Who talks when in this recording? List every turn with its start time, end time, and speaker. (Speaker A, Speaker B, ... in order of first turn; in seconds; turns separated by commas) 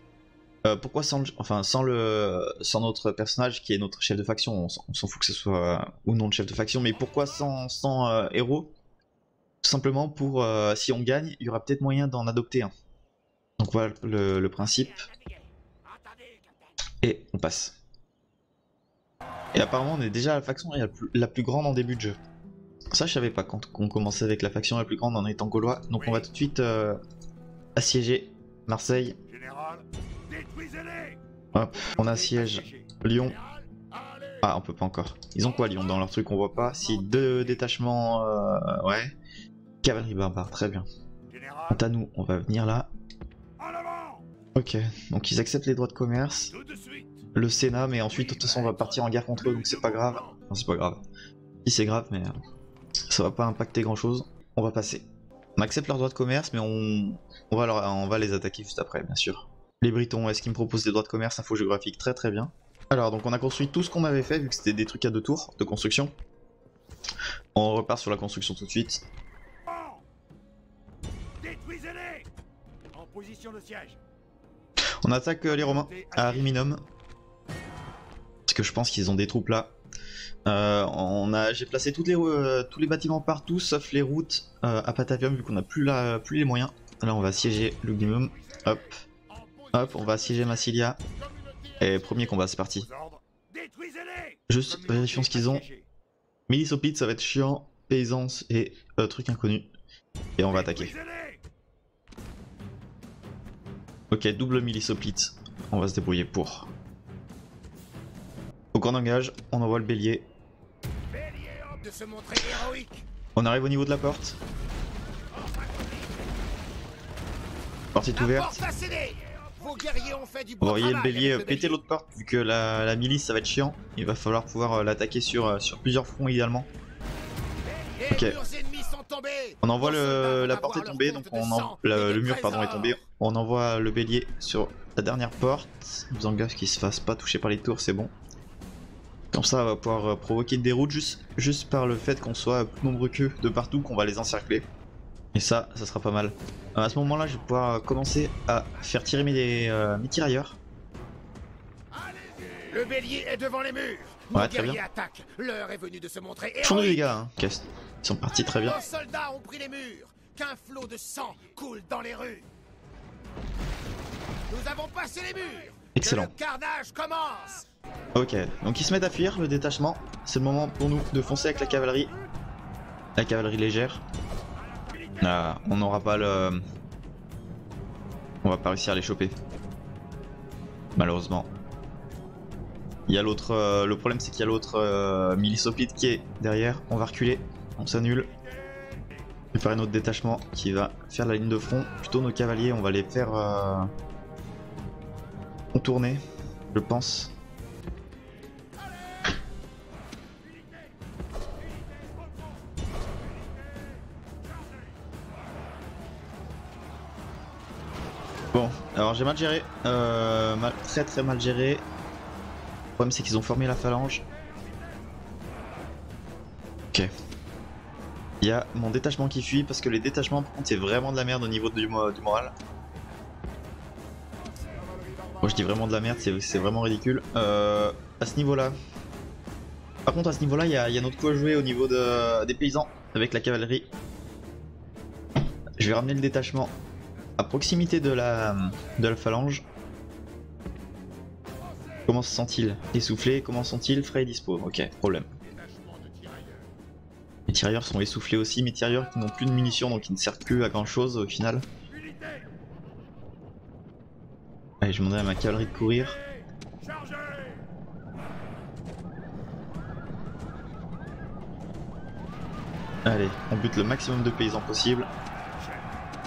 Speaker A: 0.7-8.7, Speaker B: 7.0-7.2, Speaker A: 9.6-12.7, Speaker A: 13.6-15.1, Speaker B: 14.7-15.3, Speaker B: 15.9-16.5, Speaker A: 17.0-17.8, Speaker A: 19.5-22.2, Speaker A: 22.9-27.0, Speaker B: 25.9-26.3, Speaker A: 27.8-29.2, Speaker B: 29.2-34.5, Speaker A: 31.5-33.4, Speaker A: 34.4-39.1, Speaker B: 35.4-37.6, Speaker A: 39.8-40.9, Speaker B: 41.3-41.8, Speaker A: 41.7-42.9, Speaker B: 43.6-44.2, Speaker A: 44.5-46.5, Speaker B: 46.5-47.3, Speaker A: 47.3-51.0, Speaker B: 48.1-50.4, Speaker A: 51.6-52.3, Speaker A: 53.1-55.0, Speaker A: 55.6-66.1, Speaker A: 67.5-69.0, Speaker B: 69.7-70.0, Speaker B: 71.4-72.3, Speaker B: 72.9-74.0, Speaker A: 75.0-76.8, Speaker B: 75.5-76.6, Speaker A: 78.5-79.8, Speaker A: 80.5-89.0, Speaker B: 87.4-95.9, Speaker A: 89.7-91.0, Speaker A: 91.8-92.9, Speaker A: 94.5-95.7, Speaker A: 96.5-99.7, Speaker A: 100.4-100.9, Speaker B: 100.4-101.4, Speaker A: 104.1-106.7, Speaker A: 108.7-110.3, Speaker C: 111.2-113.1, Speaker A: 113.4-114.4, Speaker B: 115.5-116.0, Speaker A: 118.0-118.7, Speaker C: 118.2-121.8, Speaker A: 120.6-126.7, Speaker C: 127.7-133.0, Speaker A: 128.1-128.4, Speaker A: 129.6-138.1, Speaker A: 139.3-144.7, Speaker A: 145.3-150.6, Speaker B: 146.9-147.5, Speaker B: 152.4-152.7, Speaker C: 152.7-157.1, Speaker A: 154.3-154.8, Speaker A: 156.6-158.8, Speaker C: 158.5-162.5, Speaker C: 164.5-167.7, Speaker A: 165.9-166.3, Speaker A: 168.2-172.1, Speaker A: 173.2-174.1, Speaker B: 174.9-175.5, Speaker A: 175.2-176.6, Speaker A: 178.4-179.4, Speaker A: 181.0-181.5, Speaker A: 183.1-188.3, Speaker A: 189.5-193.9, Speaker A: 195.7-196.2, Speaker A: 196.7-197.3, Speaker B: 201.9-202.4, Speaker A: 208.5-211.8, Speaker A: 213.0-214.2, Speaker A: 218.4-222.5, Speaker A: 225.4-228.7, Speaker A: 230.1-233.9, Speaker A: 235.8-236.7, Speaker A: 237.4-239.7, Speaker A: 242.1-245.3, Speaker B: 245.5-246.5, Speaker A: 247.5-251.7, Speaker B: 251.9-252.5, Speaker A: 254.8-256.2, Speaker B: 256.8-257.6, Speaker A: 263.1-265.1